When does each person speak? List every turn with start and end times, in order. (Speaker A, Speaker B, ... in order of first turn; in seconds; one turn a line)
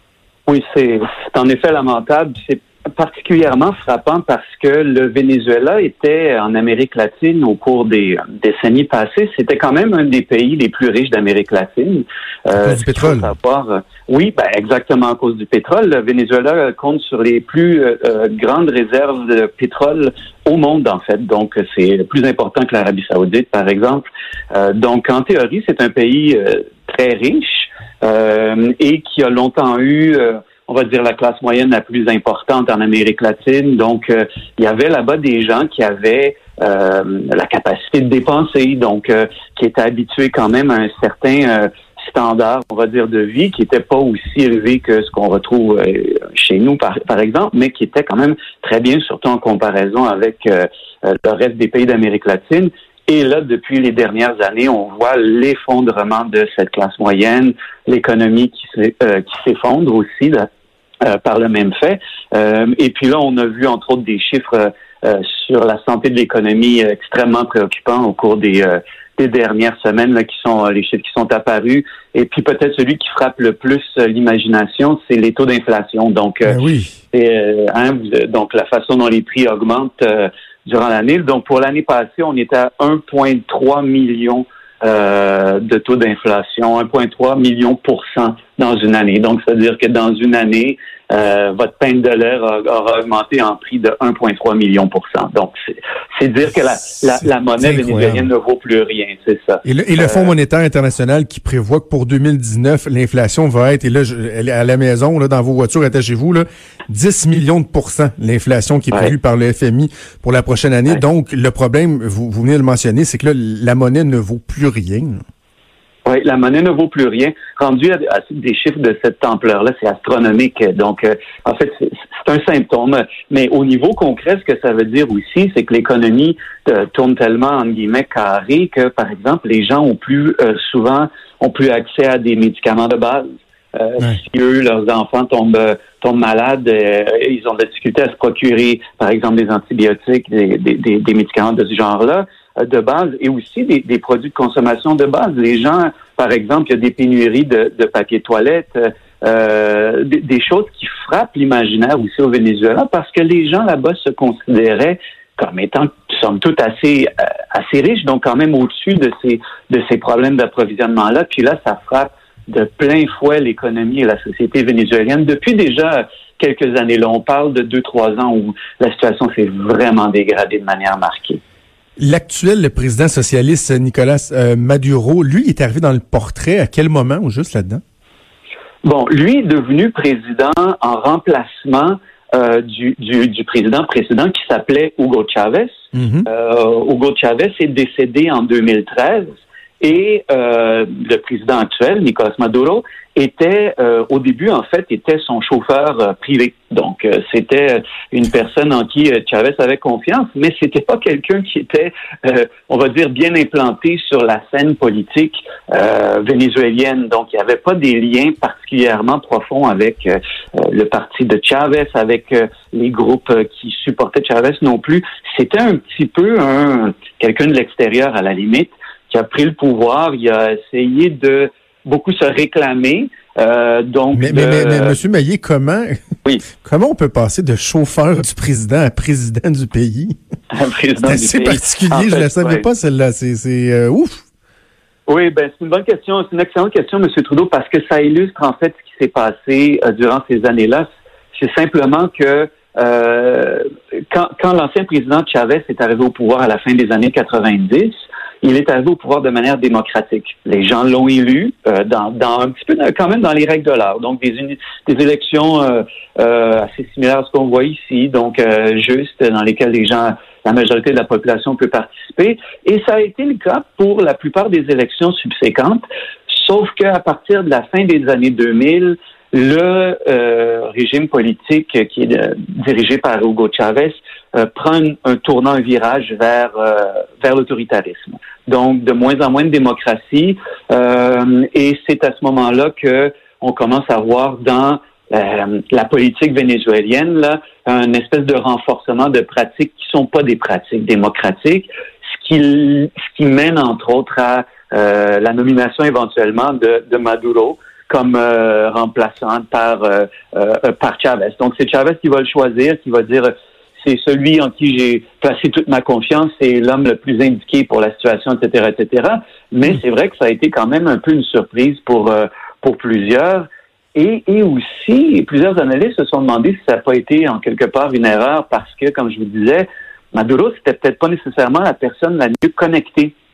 Speaker A: 0.5-60.5
Speaker B: 12.5-13.3
Speaker A: 61.0-76.6
Speaker B: 76.5-77.0
Speaker A: 77.1-100.3
Speaker B: 97.6-98.3
Speaker B: 99.7-115.2
Speaker A: 116.1-171.4
Speaker B: 172.0-177.8
Speaker A: 178.8-225.0
Speaker B: 185.9-186.3
Speaker B: 224.2-226.0
Speaker B: 226.6-230.2
Speaker A: 230.5-232.7
Speaker B: 231.0-234.2
Speaker A: 235.1-323.1